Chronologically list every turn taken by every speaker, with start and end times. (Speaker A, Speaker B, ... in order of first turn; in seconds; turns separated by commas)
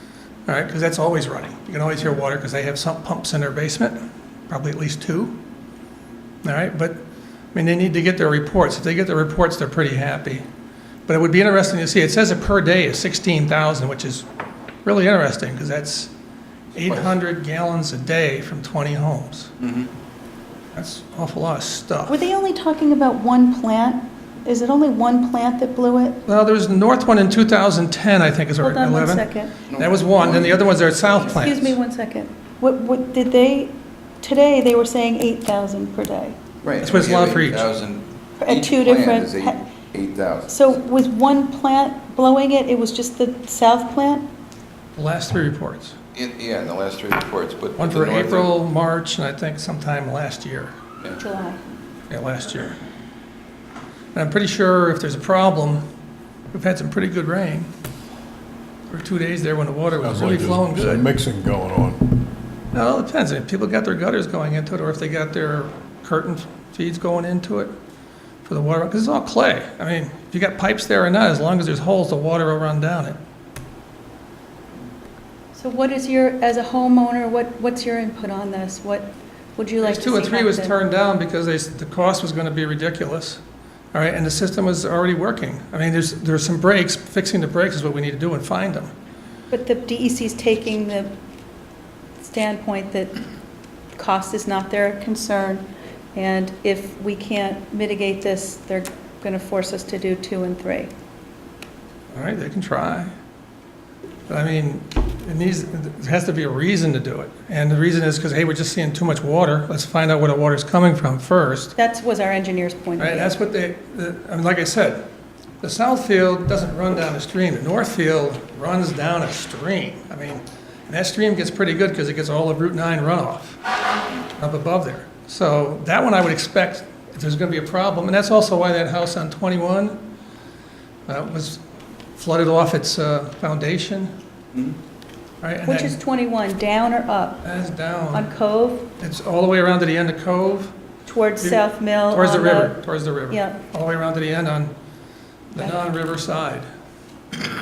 Speaker A: 0.5-4.0, Speaker A: 4.5-5.3, Speaker A: 6.4-7.0, Speaker A: 7.5-10.4, Speaker A: 11.1-14.2, Speaker A: 14.8-16.1, Speaker A: 16.8-19.5, Speaker B: 16.8-17.1, Speaker B: 19.6-19.9, Speaker A: 20.7-22.2, Speaker C: 22.1-26.2, Speaker A: 26.3-29.2, Speaker C: 28.6-29.5, Speaker B: 29.7-31.3, Speaker A: 29.8-31.8, Speaker C: 31.3-36.4, Speaker B: 36.6-40.6, Speaker A: 36.8-37.7, Speaker C: 38.4-39.6, Speaker C: 40.5-44.3, Speaker A: 45.0-46.0, Speaker B: 46.1-48.5, Speaker A: 47.8-50.8, Speaker C: 51.2-51.6, Speaker A: 52.1-52.8, Speaker A: 54.1-55.8, Speaker A: 56.5-57.7, Speaker A: 58.9-61.0, Speaker D: 60.0-62.3, Speaker A: 62.7-67.7, Speaker A: 68.5-73.2, Speaker C: 75.5-80.8, Speaker A: 79.8-83.4, Speaker A: 83.9-88.9, Speaker C: 89.5-91.1, Speaker C: 92.2-93.2, Speaker C: 94.0-100.9, Speaker A: 102.1-103.1, Speaker A: 104.3-111.7, Speaker C: 111.8-113.3, Speaker A: 113.0-115.0, Speaker A: 115.6-123.6, Speaker A: 124.4-130.0, Speaker A: 131.1-131.6, Speaker A: 132.2-134.1, Speaker B: 134.5-134.8, Speaker A: 135.4-136.0, Speaker C: 135.7-137.4, Speaker A: 137.4-138.3, Speaker C: 138.1-138.9, Speaker A: 139.0-140.7, Speaker C: 141.1-142.8, Speaker A: 141.4-144.7, Speaker C: 143.3-143.6, Speaker A: 145.5-146.7, Speaker C: 145.6-145.8